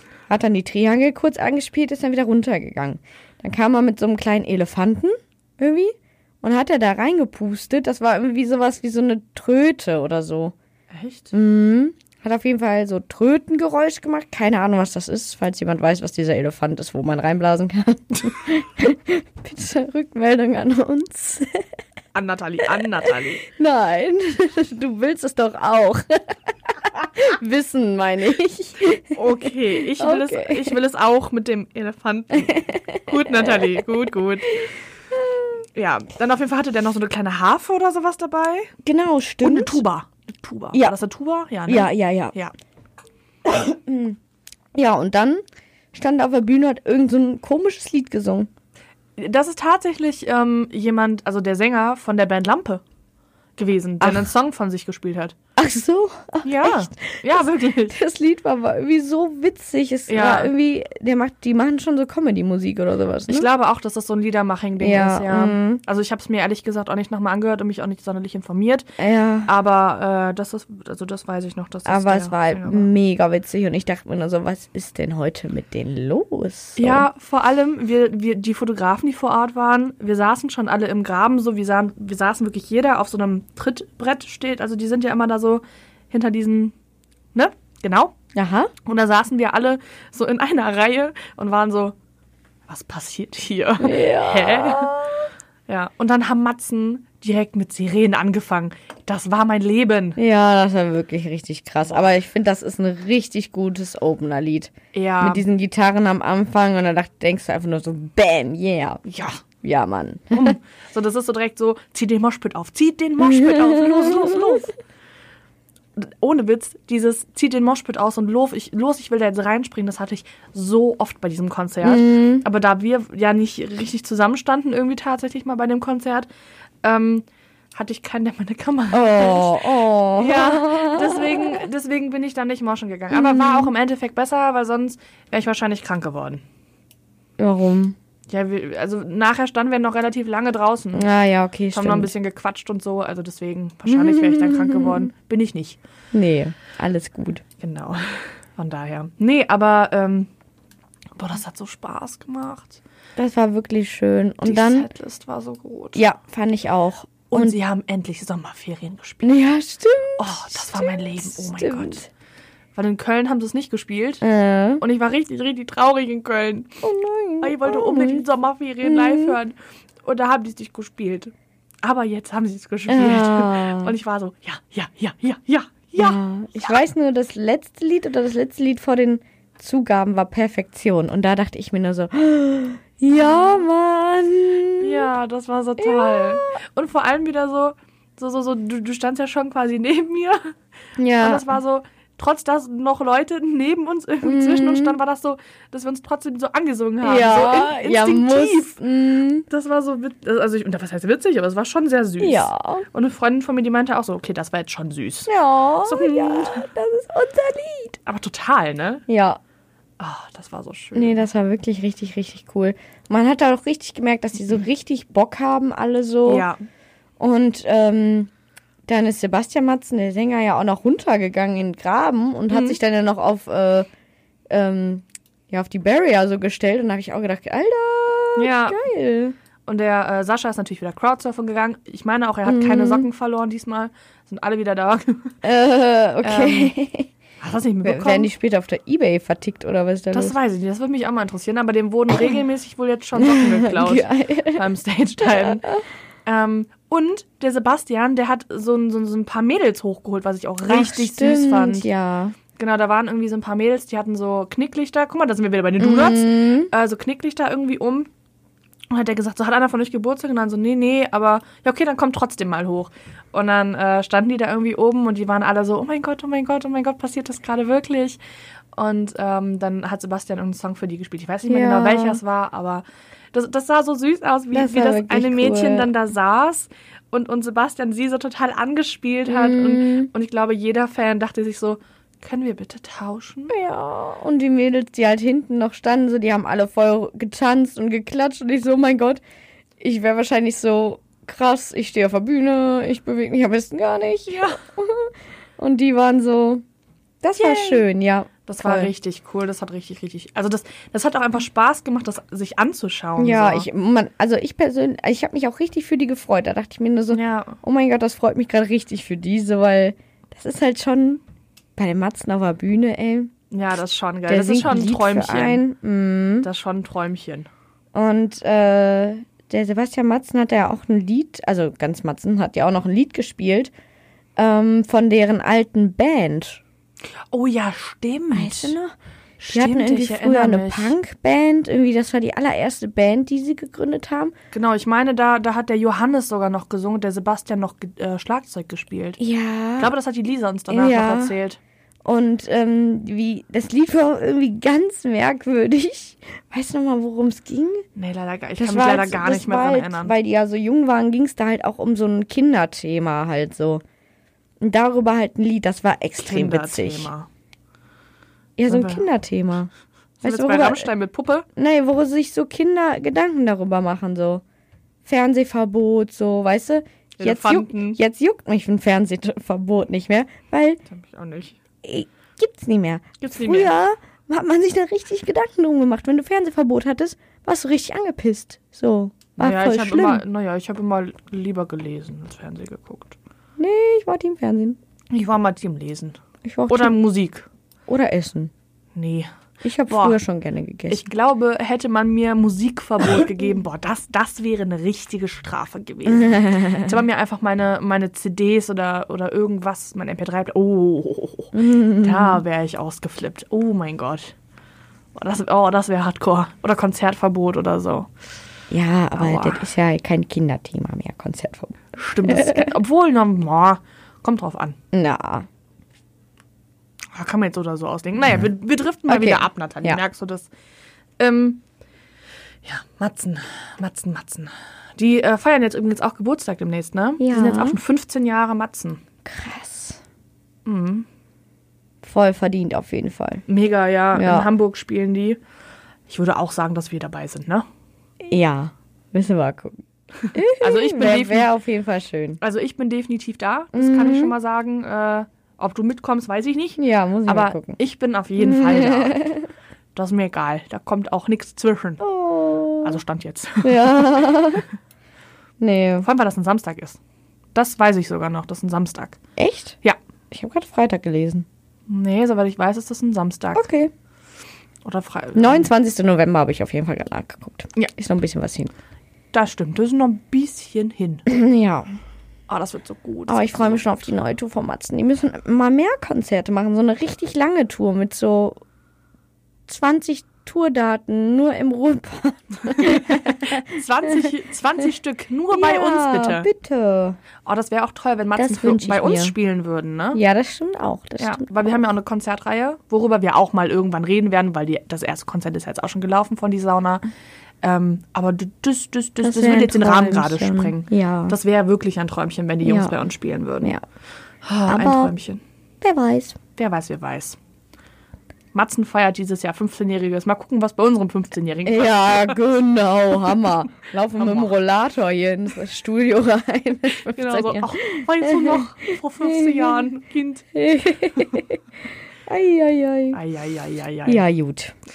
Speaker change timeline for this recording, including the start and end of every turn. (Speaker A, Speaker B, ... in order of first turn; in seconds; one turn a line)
Speaker A: 0.3-10.5
Speaker B: 10.9-11.3
Speaker A: 11.3-21.6
Speaker B: 22.1-23.4
Speaker A: 23.4-30.8
Speaker B: 29.1-34.6
Speaker A: 32.4-33.8
Speaker A: 34.5-34.7
Speaker A: 35.2-35.6
Speaker B: 35.7-38.7
Speaker A: 38.8-39.8
Speaker B: 39.4-42.5
Speaker A: 41.7-42.3
Speaker A: 43.4-44.2
Speaker A: 44.7-48.5
Speaker B: 49.2-52.8
Speaker B: 53.5-55.4
Speaker A: 54.0-54.2
Speaker A: 55.6-63.5
Speaker B: 56.4-58.0
Speaker B: 60.1-60.5
Speaker B: 63.3-68.8
Speaker A: 64.8-65.8
Speaker A: 69.0-69.5
Speaker B: 69.5-72.9
Speaker A: 71.8-77.0
Speaker B: 76.8-86.7
Speaker B: 87.3-88.1
Speaker A: 88.3-88.7
Speaker B: 88.8-92.0
Speaker B: 92.7-95.0
Speaker A: 93.8-95.3
Speaker B: 95.7-100.2
Speaker A: 100.2-109.0
Speaker B: 104.9-105.4
Speaker B: 109.0-109.4
Speaker A: 109.6-110.5
Speaker B: 110.3-114.7
Speaker A: 113.2-114.7
Speaker B: 116.0-126.3
Speaker A: 121.8-122.4
Speaker B: 126.8-129.6
Speaker A: 128.9-131.6
Speaker B: 130.2-136.4
Speaker A: 133.1-133.7
Speaker A: 137.4-137.9
Speaker B: 138.3-141.1
Speaker A: 140.9-142.1
Speaker B: 141.7-145.8
Speaker A: 143.9-145.1
Speaker A: 146.1-147.4
Speaker B: 147.6-150.3
Speaker B: 151.2-152.8
Speaker A: 153.2-154.9
Speaker B: 154.4-156.0
Speaker A: 155.9-157.6
Speaker B: 157.3-159.3
Speaker A: 159.2-162.1
Speaker B: 160.2-162.0
Speaker B: 162.7-164.2
Speaker A: 164.2-164.8
Speaker B: 164.8-166.8
Speaker A: 166.8-168.2
Speaker B: 167.4-176.8
Speaker A: 168.8-169.4
Speaker A: 172.9-173.9
Speaker A: 176.0-185.1
Speaker B: 183.1-183.6
Speaker B: 184.8-190.5
Speaker A: 185.8-186.6
Speaker A: 191.0-191.5
Speaker B: 191.2-198.8
Speaker A: 194.2-195.0
Speaker A: 197.0-199.5
Speaker B: 199.5-205.3
Speaker A: 202.2-202.9
Speaker A: 205.3-208.0
Speaker B: 205.8-206.7
Speaker B: 208.0-209.0
Speaker A: 209.1-209.4
Speaker B: 210.0-211.2
Speaker A: 210.9-216.5
Speaker B: 216.2-216.6
Speaker A: 217.2-218.3
Speaker A: 218.9-223.9
Speaker B: 222.5-222.8
Speaker A: 224.5-229.3
Speaker B: 228.4-228.8
Speaker B: 229.7-235.3
Speaker A: 232.4-233.1
Speaker A: 235.4-237.1
Speaker B: 236.2-236.7
Speaker B: 237.4-238.3
Speaker A: 237.8-240.3
Speaker B: 240.1-245.6
Speaker A: 243.2-244.6
Speaker A: 245.2-245.8
Speaker B: 246.2-251.9
Speaker A: 250.7-252.3
Speaker B: 252.6-258.1
Speaker A: 255.8-256.7
Speaker B: 258.9-268.2
Speaker B: 268.7-283.5
Speaker A: 271.5-272.2
Speaker A: 274.5-275.9
Speaker A: 279.3-280.1
Speaker A: 283.5-289.2
Speaker A: 289.8-296.6
Speaker B: 294.3-294.6
Speaker A: 297.2-298.9
Speaker B: 297.4-297.9
Speaker B: 298.5-303.7
Speaker A: 303.2-311.2
Speaker B: 307.1-307.6
Speaker A: 311.8-313.3
Speaker B: 313.5-315.6
Speaker A: 314.3-316.5
Speaker B: 316.4-317.5
Speaker A: 317.9-323.7
Speaker A: 324.4-326.6
Speaker B: 327.3-328.8
Speaker A: 328.3-328.9
Speaker B: 329.4-330.9
Speaker A: 329.5-334.3
Speaker B: 334.5-339.2
Speaker A: 339.2-339.9
Speaker B: 339.8-341.6
Speaker A: 340.7-341.3
Speaker A: 342.0-347.8
Speaker B: 347.9-350.1
Speaker A: 348.6-353.8
Speaker A: 354.6-357.1
Speaker B: 356.2-357.3
Speaker A: 358.6-359.7
Speaker B: 358.7-359.1
Speaker B: 360.2-361.4
Speaker A: 360.2-360.9
Speaker A: 361.5-364.4
Speaker A: 365.0-370.8
Speaker B: 367.2-368.0
Speaker B: 370.9-371.6
Speaker A: 371.8-380.2
Speaker B: 373.2-373.7
Speaker B: 379.4-383.1
Speaker A: 383.6-384.8
Speaker B: 385.1-386.2
Speaker A: 386.4-387.0
Speaker B: 386.7-387.5
Speaker A: 387.9-388.5
Speaker B: 388.9-389.3
Speaker A: 389.6-391.1
Speaker B: 389.9-390.2
Speaker B: 390.9-404.3
Speaker A: 396.1-396.9
Speaker A: 401.5-402.4
Speaker B: 405.1-408.1
Speaker A: 408.7-412.7
Speaker B: 409.1-409.6
Speaker B: 412.0-414.8
Speaker A: 414.9-415.5
Speaker B: 417.1-420.5
Speaker A: 419.1-420.0
Speaker B: 421.2-421.6
Speaker B: 422.6-429.0
Speaker A: 427.2-427.8
Speaker A: 429.2-430.0
Speaker B: 430.6-431.1
Speaker A: 432.0-433.4
Speaker B: 433.5-435.4
Speaker A: 434.1-434.5
Speaker B: 436.1-437.7
Speaker A: 438.2-439.8
Speaker B: 440.2-441.5
Speaker A: 440.3-442.4
Speaker B: 442.4-449.2
Speaker A: 443.7-444.3
Speaker A: 446.8-447.8
Speaker A: 448.4-449.5
Speaker B: 449.9-452.0
Speaker A: 452.0-453.0
Speaker B: 452.8-454.6
Speaker A: 453.6-454.6
Speaker A: 455.6-456.1
Speaker B: 456.0-457.0
Speaker B: 457.5-459.2
Speaker A: 459.4-459.8
Speaker A: 460.3-461.4
Speaker B: 461.9-463.7
Speaker A: 463.5-463.9
Speaker B: 464.8-465.7
Speaker A: 465.3-468.7
Speaker B: 469.3-471.2
Speaker A: 471.3-471.9
Speaker B: 472.5-473.9
Speaker A: 473.3-478.6
Speaker A: 479.7-484.2
Speaker B: 482.8-486.5
Speaker A: 485.5-487.2
Speaker B: 487.4-490.2
Speaker A: 488.4-489.3
Speaker A: 490.1-491.5
Speaker B: 491.2-497.0
Speaker B: 497.6-503.7
Speaker A: 499.2-501.4
Speaker A: 502.6-502.9
Speaker B: 504.4-505.4
Speaker A: 504.6-505.1
Speaker A: 505.8-506.4
Speaker B: 506.6-507.4
Speaker B: 508.5-512.4
Speaker A: 511.6-519.8
Speaker B: 514.1-514.5
Speaker B: 517.1-520.5
Speaker A: 520.5-521.6
Speaker A: 522.3-523.2
Speaker B: 523.1-524.2
Speaker A: 524.0-524.7